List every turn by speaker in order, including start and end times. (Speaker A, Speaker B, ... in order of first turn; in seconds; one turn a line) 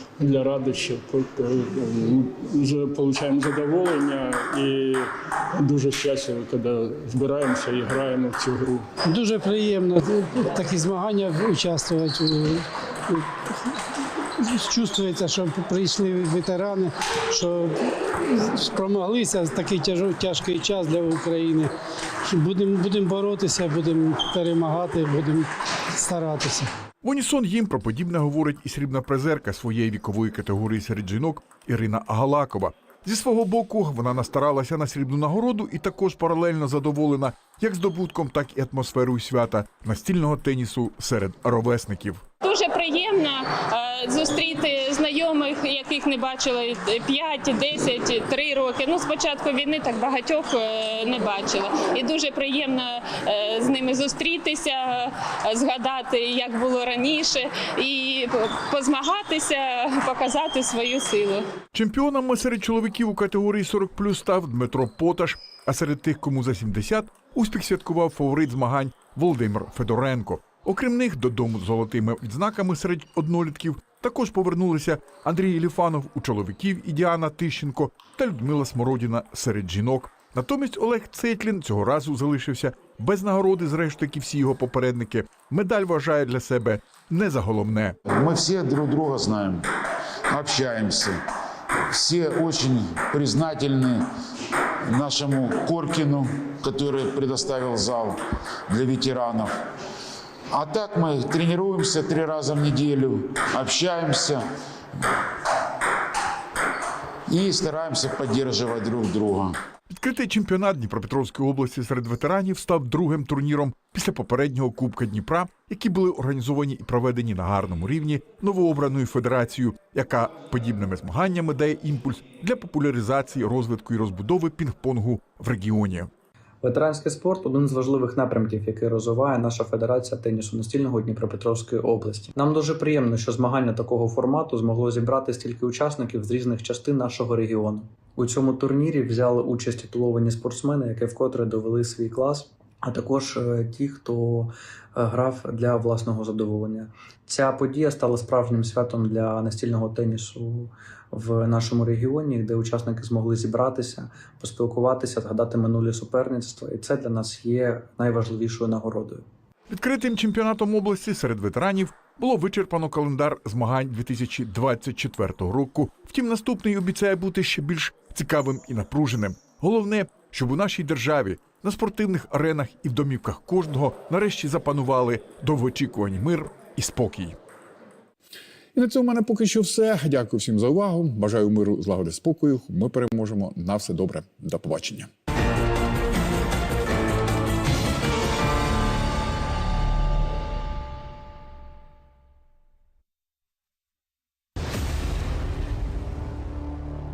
Speaker A: 0.2-8.9
Speaker B: 9.0-13.4
Speaker B: 14.4-17.7
Speaker B: 18.3-21.7
Speaker B: 22.2-26.7
Speaker C: 27.0-42.2
Speaker D: 42.4-61.4
Speaker C: 61.7-88.0
Speaker E: 88.1-89.6
Speaker E: 90.3-91.2
Speaker E: 91.9-94.0
Speaker E: 94.9-98.2
Speaker E: 98.7-99.5
Speaker E: 100.5-104.4
Speaker E: 107.3-109.5
Speaker C: 109.9-126.1
Speaker F: 126.6-159.2
Speaker C: 159.7-177.3
Speaker G: 178.7-185.1